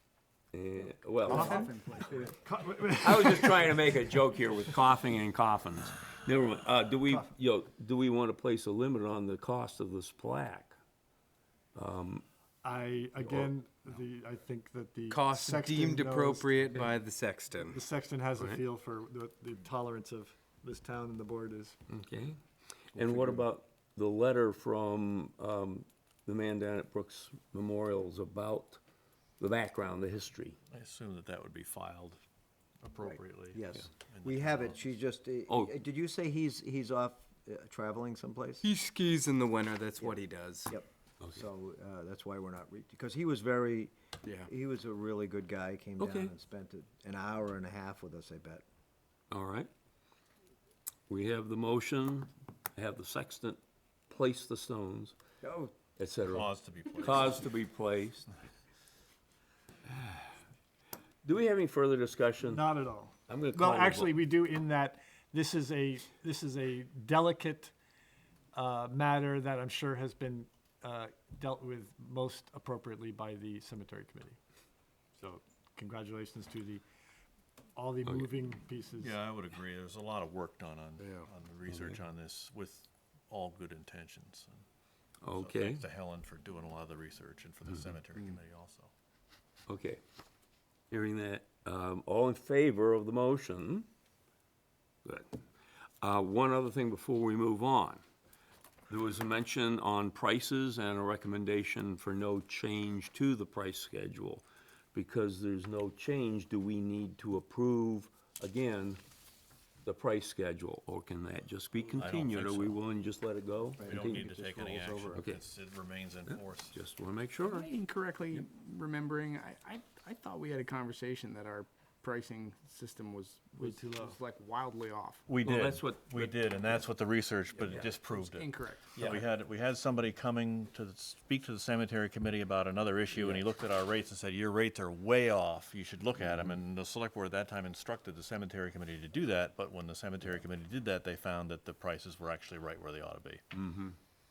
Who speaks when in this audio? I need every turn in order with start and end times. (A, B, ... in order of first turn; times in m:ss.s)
0:00.5-0:01.7 A
0:01.3-0:03.8 B
0:01.3-0:02.3 C
0:02.9-0:10.7 A
0:11.7-0:12.2 A
0:12.6-0:17.0 B
0:15.1-0:17.8 D
0:17.6-0:21.8 B
0:21.9-0:22.4 A
0:22.9-0:28.8 A
0:29.4-0:30.6 A
0:30.7-0:32.2 E
0:32.8-0:34.9 E
0:33.0-0:38.6 F
0:35.5-0:35.8 A
0:38.6-0:40.7 D
0:40.0-0:43.9 F
0:44.2-0:44.5 D
0:44.4-0:48.6 F
0:46.0-0:46.3 A
0:49.3-0:49.7 A
0:51.1-0:55.1 A
0:55.4-0:55.7 F
0:56.0-0:58.3 A
0:56.3-0:57.4 E
1:01.2-1:02.7 A
1:02.4-1:07.7 B
1:03.3-1:04.2 A
1:08.5-1:14.4 B
1:15.2-1:16.8 B
1:17.7-1:19.2 B
1:18.0-1:18.4 A
1:19.0-1:24.6 E
1:21.0-1:21.3 D
1:21.7-1:22.0 A
1:25.2-1:25.8 A
1:25.3-1:28.9 E
1:29.7-1:30.0 A
1:30.9-1:33.9 A
1:35.0-1:35.3 A
1:36.0-1:38.0 A
1:38.9-1:49.0 A
1:49.8-1:54.3 A
1:52.0-1:52.8 E
1:53.8-1:55.2 F
1:53.8-1:56.8 E
1:55.1-1:55.4 A
1:56.3-1:57.7 A
1:57.4-2:05.2 C
2:03.5-2:04.2 B
2:05.3-2:23.4 E
2:05.4-2:06.8 A
2:07.7-2:09.1 C
2:13.1-2:13.4 A
2:23.5-2:24.0 A